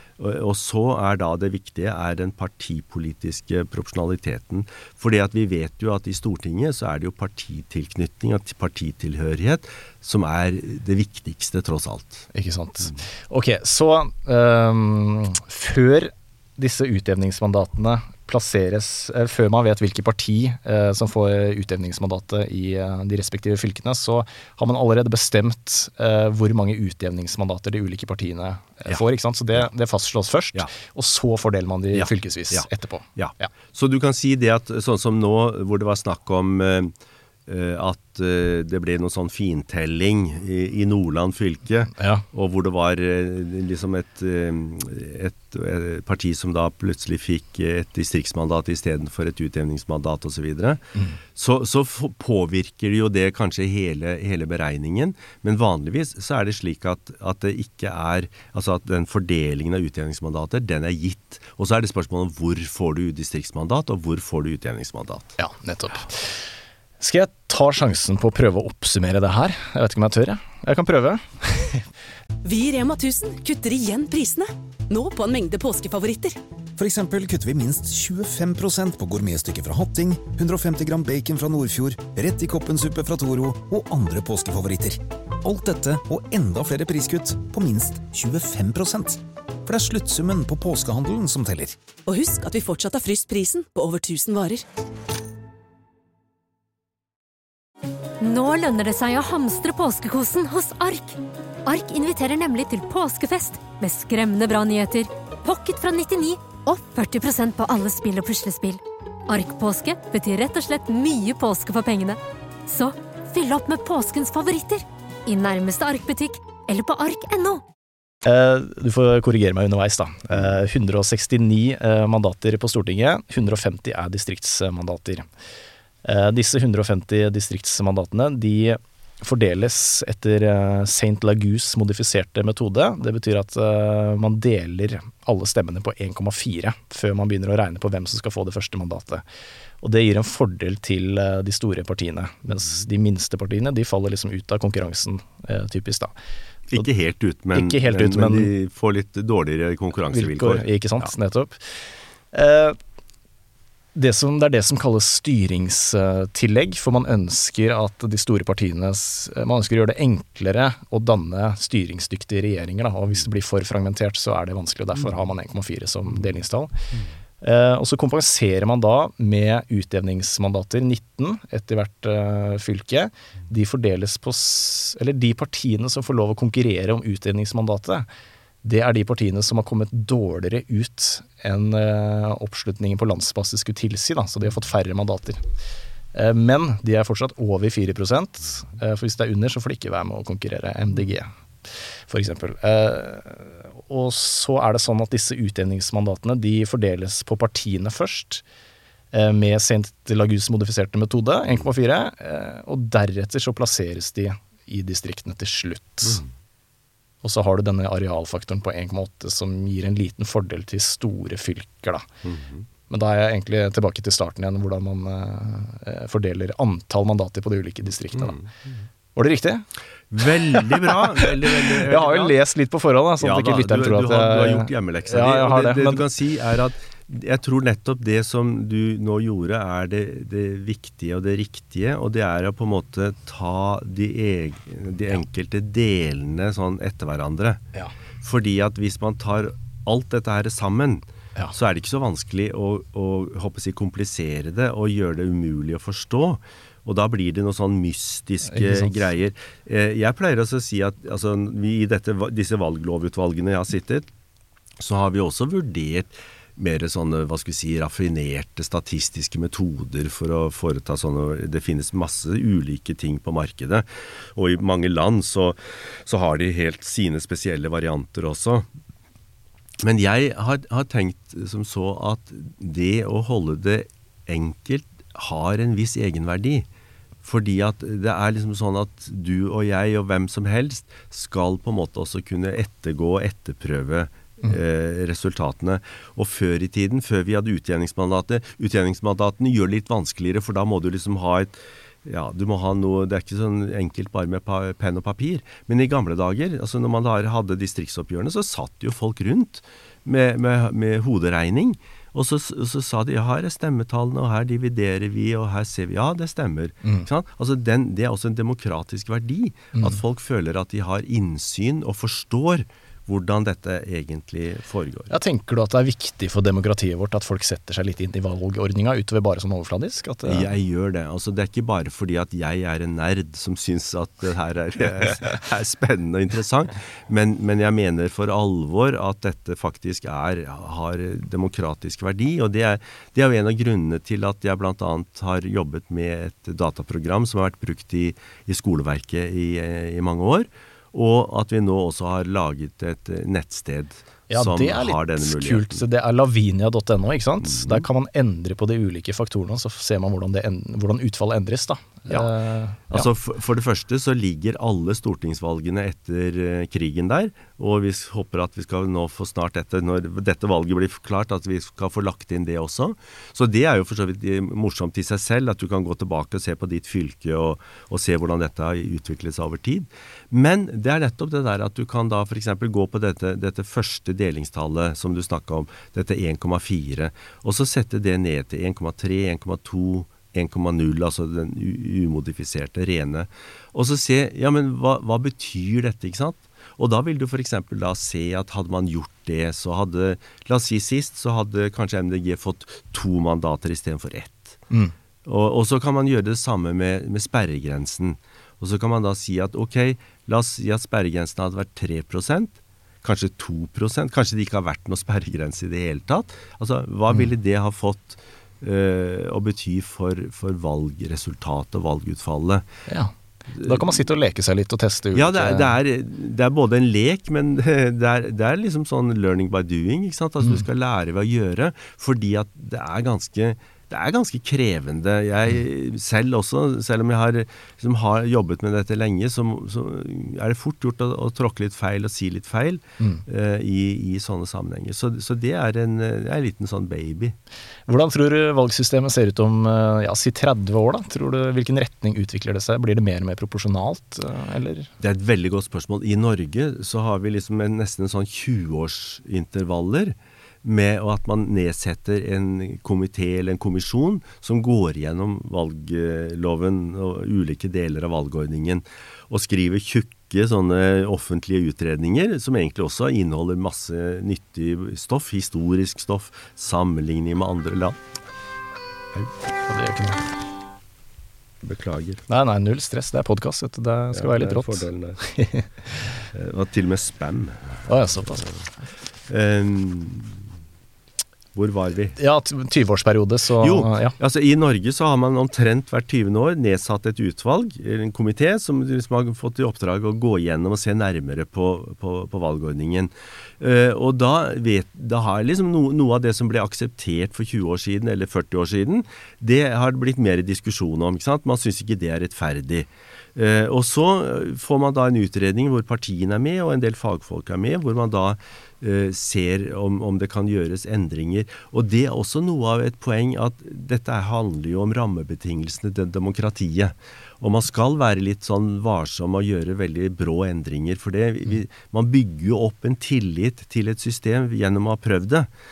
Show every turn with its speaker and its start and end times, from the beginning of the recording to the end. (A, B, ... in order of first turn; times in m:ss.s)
0:00.2-0:12.3 A
0:12.3-0:33.5 B
0:31.9-0:36.9 A
0:37.4-0:50.8 A
0:42.0-0:42.2 B
0:51.3-1:05.4 A
1:05.4-1:06.3 B
1:07.0-1:11.8 B
1:12.4-1:16.4 C
1:16.8-1:31.8 D
1:32.1-1:34.6 C
1:38.2-1:57.6 E
1:58.2-2:05.2 B
2:06.0-2:19.2 B
2:19.8-2:26.1 B
2:26.7-2:31.1 A
2:27.5-2:28.5 B
2:30.1-2:31.6 B
2:32.3-2:32.8 B
2:34.0-2:46.7 B
2:47.4-2:58.0 B
2:58.6-3:05.4 B
3:06.1-3:11.3 B
3:12.1-3:18.4 B
3:19.1-3:26.2 B
3:26.0-3:26.3 A
3:27.2-3:32.0 B
3:32.2-3:32.6 A
3:32.9-3:38.4 B
3:38.1-3:38.8 A
3:39.2-3:39.7 B
3:40.1-3:42.4 A
3:40.5-3:46.0 B
3:43.2-3:57.6 A
3:58.2-4:14.1 A
4:08.4-4:09.0 B
4:14.8-4:28.6 A
4:29.8-4:36.7 A
4:37.2-5:15.1 A
5:09.7-5:10.0 B
5:15.1-5:20.5 B
5:20.2-5:45.8 A
5:44.3-5:53.1 B
5:47.4-5:47.8 A
5:52.9-6:34.6 A
6:35.2-6:52.7 A
6:52.9-6:55.7 B
6:53.5-6:54.0 A
6:55.1-7:17.3 A
7:17.9-7:24.9 B
7:25.0-7:48.0 A
7:49.6-7:50.2 B
7:51.6-7:52.2 A
7:52.3-7:56.0 B
7:54.1-7:55.2 A
7:56.3-7:58.6 A
7:57.8-7:58.5 B
7:59.3-8:00.4 A
8:01.5-8:02.2 A
8:02.2-8:04.1 B
8:03.6-8:45.5 A